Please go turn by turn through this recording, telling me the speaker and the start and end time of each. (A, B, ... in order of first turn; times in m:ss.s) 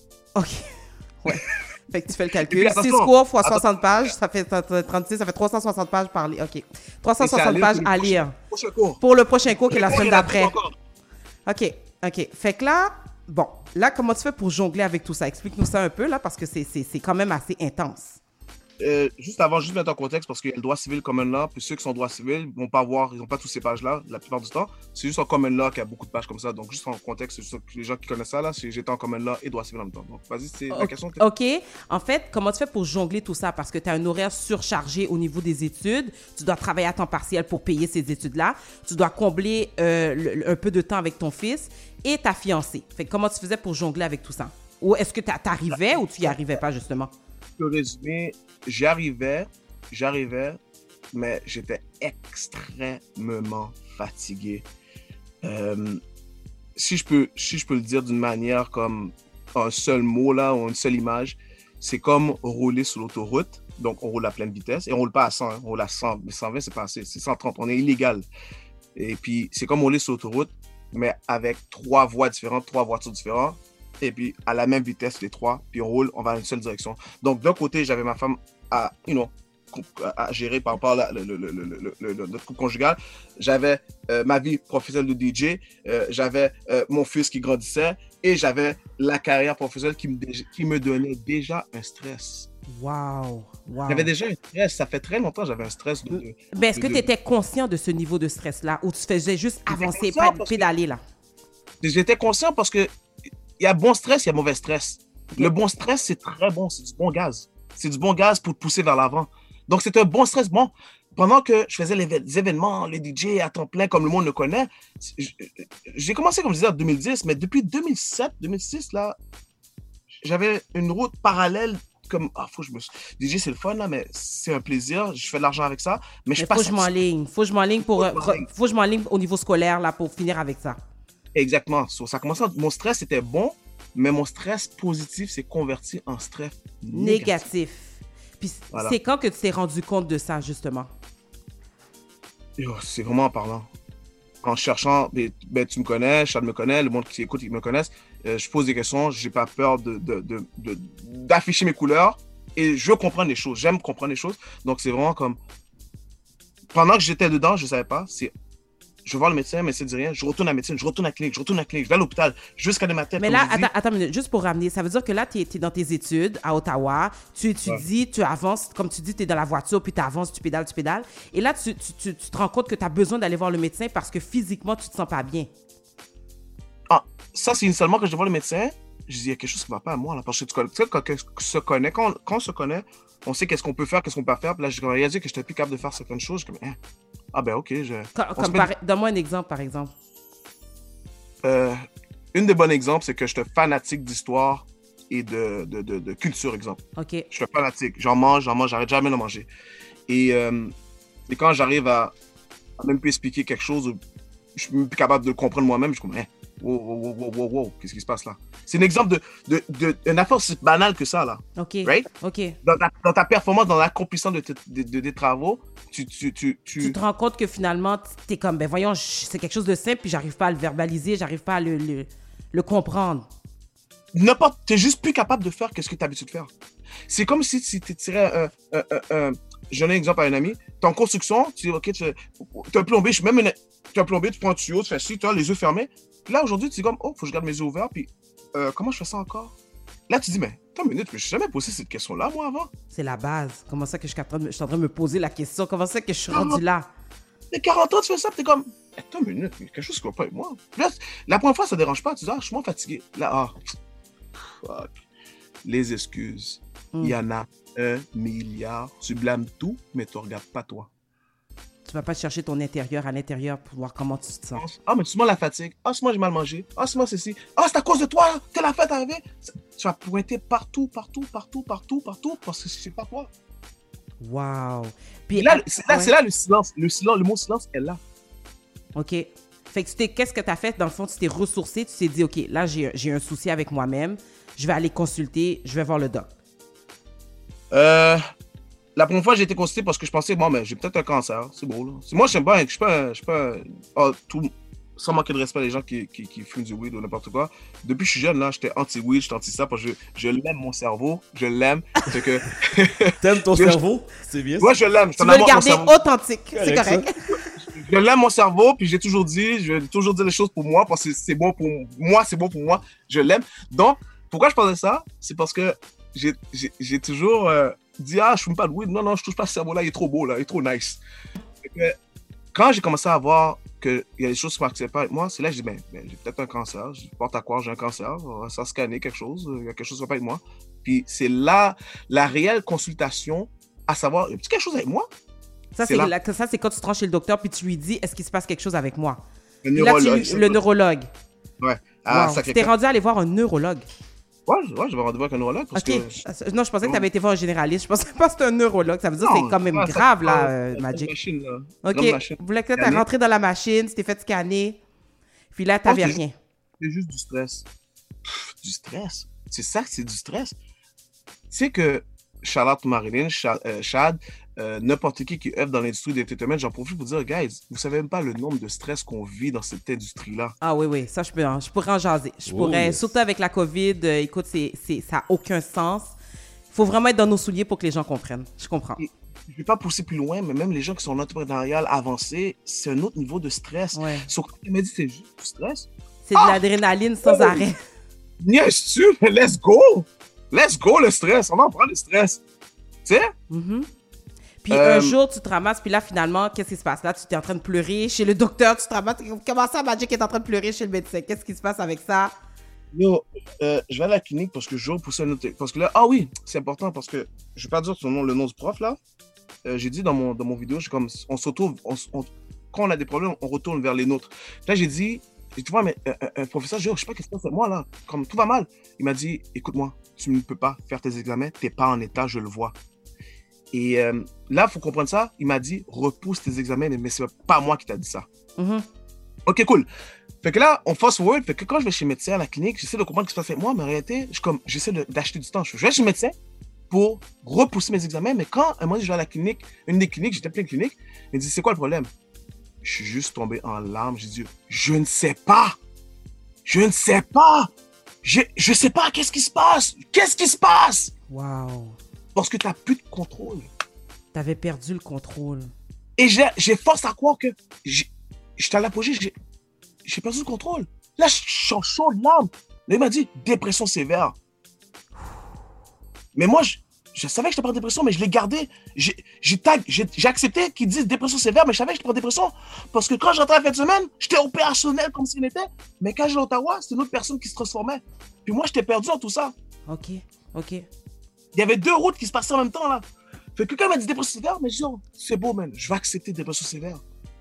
0:00.4-0:08.3 A
0:02.4-0:04.1 B
0:07.2-0:09.0 B
0:09.0-0:10.5 A
0:09.7-0:10.7 B
0:11.4-0:18.2 A
0:18.8-0:31.2 B
0:30.7-0:47.1 A
0:45.7-0:46.6 B
0:47.6-0:50.6 B
0:51.1-0:54.6 B
0:55.4-0:56.0 B
0:56.8-1:08.3 B
1:08.9-1:32.5 B
1:32.7-1:34.1 A
1:33.9-1:37.0 B
1:36.1-1:41.0 A
1:39.7-1:40.7 B
1:41.8-1:42.9 B
1:43.6-1:59.2 B
2:00.1-2:06.9 B
2:06.4-2:10.8 A
2:07.8-2:08.5 B
2:11.3-2:17.4 B
2:16.9-2:20.9 A
2:18.7-2:19.0 B
2:22.6-2:23.7 B
2:24.4-2:35.4 B
2:36.7-2:38.3 B
2:39.0-2:43.7 B
2:43.2-2:55.5 A
2:56.9-3:06.8 B
3:07.3-3:08.7 B
3:08.1-3:09.9 A
3:11.4-3:11.8 B
3:12.3-3:19.5 B
3:17.0-3:17.3 A
3:20.1-3:20.7 B
3:21.3-3:22.1 B
3:22.8-3:24.0 B
3:24.5-3:32.1 B
3:31.6-3:32.6 A
3:32.6-3:37.0 B
3:36.8-3:43.2 A
3:44.1-3:46.5 B
3:47.1-3:59.5 B
4:00.1-4:02.7 B
4:02.9-4:06.9 A
4:06.3-4:06.6 B
4:07.5-4:13.6 B
4:14.4-4:15.0 B
4:15.6-4:20.9 B
4:21.9-4:24.6 A
4:24.5-4:33.3 B
4:34.2-4:36.1 A
4:35.3-4:38.0 B
4:38.9-4:46.3 A
4:47.7-4:48.2 B
4:49.0-5:03.8 B
5:03.2-5:04.7 C
5:04.6-5:05.9 B
5:05.2-5:07.2 A
5:06.5-5:07.0 C
5:07.6-5:21.0 B
5:21.6-5:21.9 B
5:22.5-5:35.1 B
5:35.8-5:39.2 A
5:35.8-5:36.1 B
5:39.6-5:40.6 B
5:39.7-5:41.1 A
5:41.6-5:42.7 B
5:42.1-5:43.9 A
5:44.5-5:46.2 B
5:45.7-5:51.1 A
5:46.8-5:47.1 B
5:49.2-5:53.0 B
5:51.8-5:54.8 A
5:55.5-5:56.4 A
5:55.8-5:56.2 B
5:56.8-5:57.7 B
5:58.2-6:00.6 B
6:01.5-6:10.5 B
6:10.6-6:16.1 A
6:12.5-6:13.1 C
6:16.7-6:19.0 A
6:19.0-6:26.6 B
6:23.9-6:24.3 A
6:26.2-6:27.8 A
6:27.2-6:27.6 B
6:28.4-6:32.4 B
6:33.0-6:33.3 B
6:33.5-6:33.9 A
6:34.6-6:42.3 A
6:34.7-6:35.2 B
6:42.9-6:49.0 B
6:49.6-7:02.7 B
7:03.7-7:08.2 B
7:08.6-7:08.8 A
7:09.4-7:09.9 B
7:10.4-7:16.3 B
7:16.9-7:22.1 B
7:22.8-7:25.8 B
7:26.6-7:27.7 B
7:28.2-7:31.1 B
7:31.3-7:32.0 A
7:32.3-7:33.7 B
7:34.3-7:35.7 A
7:36.2-7:39.3 B
7:40.0-7:44.3 B
7:46.3-7:59.5 B
7:59.9-8:00.8 A
8:01.5-8:03.0 B
8:03.6-8:07.0 B